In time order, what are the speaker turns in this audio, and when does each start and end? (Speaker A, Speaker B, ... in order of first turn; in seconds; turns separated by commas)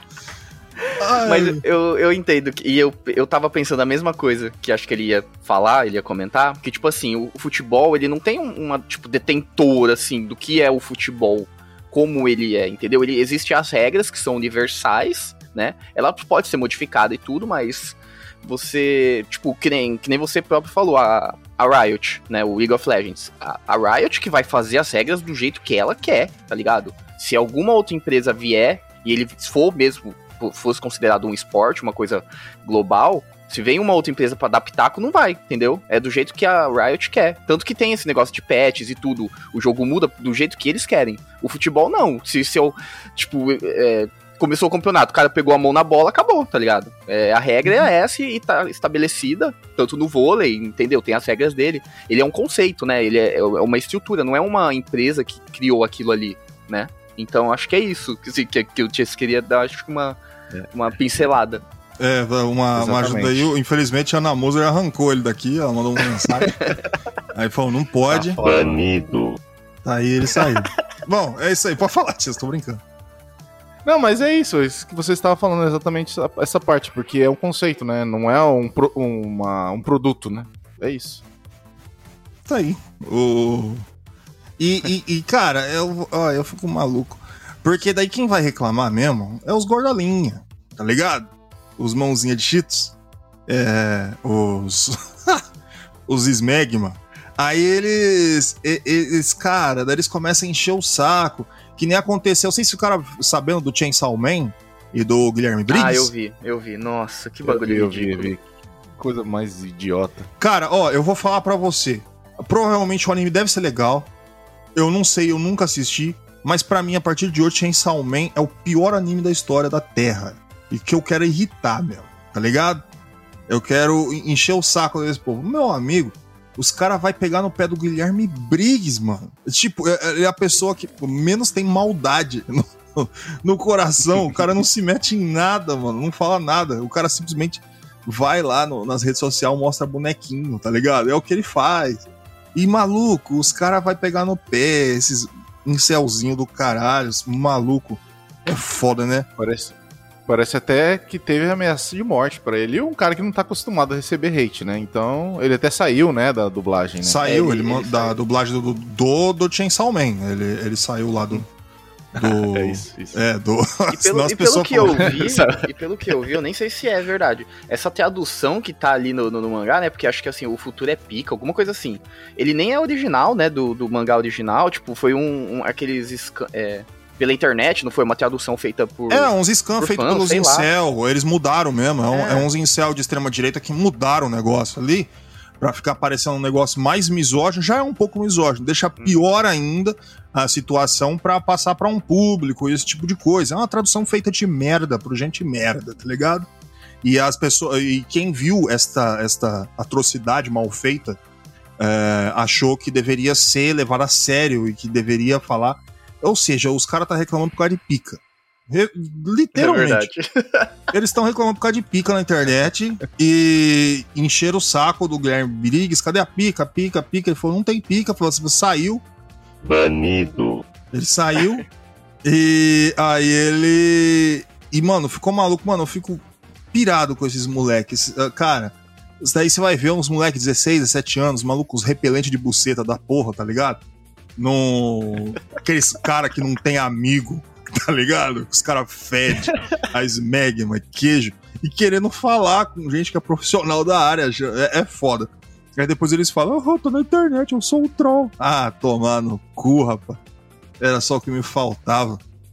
Speaker A: 1.0-1.6, Speaker B: 1.2-60.2, Speaker B: 60.7-61.6, Speaker A: 62.0-66.5, Speaker C: 62.8-63.5, Speaker A: 67.3-68.4, Speaker C: 68.1-68.8, Speaker D: 68.3-69.4, Speaker A: 69.8-72.8, Speaker C: 73.8-81.2, Speaker A: 82.5-83.8, Speaker A: 84.6-92.9, Speaker A: 93.5-95.4, Speaker A: 96.1-106.1, Speaker B: 105.7-108.3, Speaker C: 107.4-108.4, Speaker C: 109.0-110.3, Speaker A: 110.4-114.1, Speaker A: 114.7-122.8, Speaker A: 123.5-149.3, Speaker C: 149.4-149.7, Speaker C: 150.3-157.4, Speaker A: 157.0-161.4, Speaker B: 157.2-158.2, Speaker C: 162.1-163.2, Speaker A: 162.1-165.2, Speaker B: 163.9-180.7, Speaker C: 165.0-165.7, Speaker A: 179.1-196.5, Speaker B: 182.1-182.5, Speaker A: 197.0-201.2, Speaker A: 201.8-210.1, Speaker B: 209.5-210.7, Speaker A: 210.9-219.0, Speaker D: 219.6-220.6, Speaker A: 220.9-221.7, Speaker A: 222.2-226.2, Speaker A: 226.7-233.8, Speaker A: 234.4-250.2, Speaker A: 250.8-252.2